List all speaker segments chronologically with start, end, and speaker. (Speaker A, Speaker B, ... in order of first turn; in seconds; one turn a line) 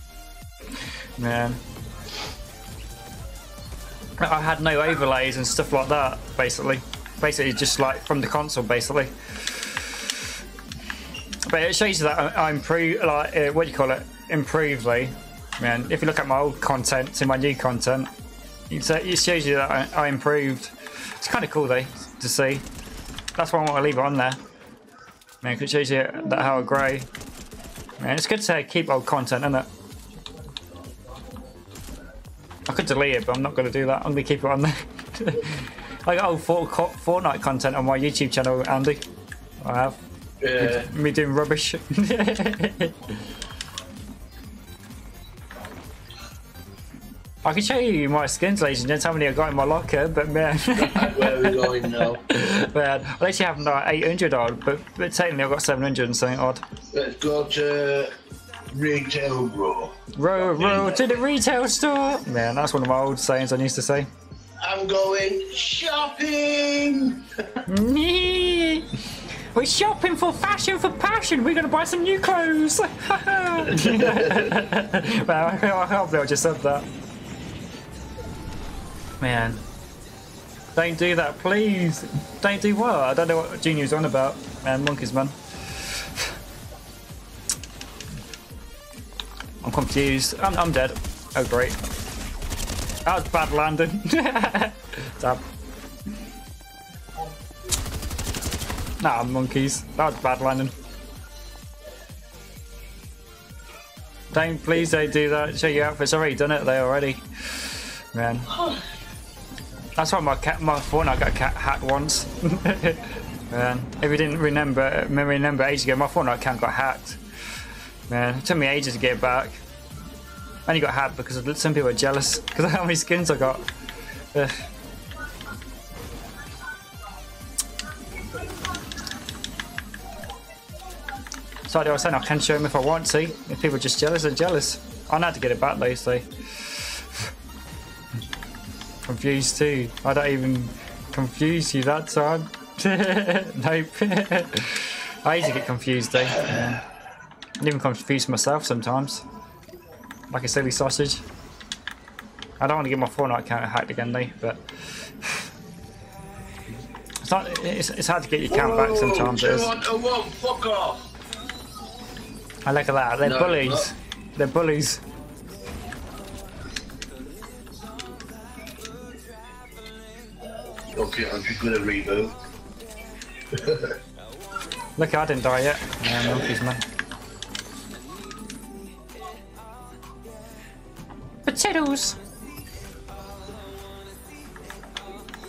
Speaker A: 1.2-1.6
Speaker A: 4.2-10.3
Speaker A: 11.4-18.1
Speaker A: 18.7-22.6
Speaker A: 23.4-24.4
Speaker A: 25.4-27.1
Speaker A: 28.0-29.7
Speaker A: 32.7-39.0
Speaker A: 39.6-40.0
Speaker B: 40.4-40.9
Speaker A: 40.6-43.1
Speaker A: 47.4-56.6
Speaker B: 50.7-52.2
Speaker B: 56.9-58.1
Speaker B: 58.7-61.1
Speaker A: 60.1-64.1
Speaker B: 64.6-67.7
Speaker A: 67.7-76.9
Speaker A: 79.2-79.6
Speaker A: 80.8-86.3
Speaker A: 89.6-91.8
Speaker A: 93.0-95.4
Speaker A: 99.0-100.7
Speaker A: 104.3-108.6
Speaker A: 110.0-117.2
Speaker A: 118.1-119.6
Speaker A: 120.7-123.7
Speaker A: 131.7-137.3
Speaker A: 139.1-146.8
Speaker A: 147.6-149.2
Speaker A: 150.3-151.2
Speaker A: 152.6-155.5
Speaker A: 157.2-159.8
Speaker B: 158.5-161.1
Speaker A: 162.7-165.0
Speaker B: 163.2-163.9
Speaker B: 170.9-172.3
Speaker B: 173.5-173.9
Speaker A: 175.0-176.8
Speaker A: 181.5-182.2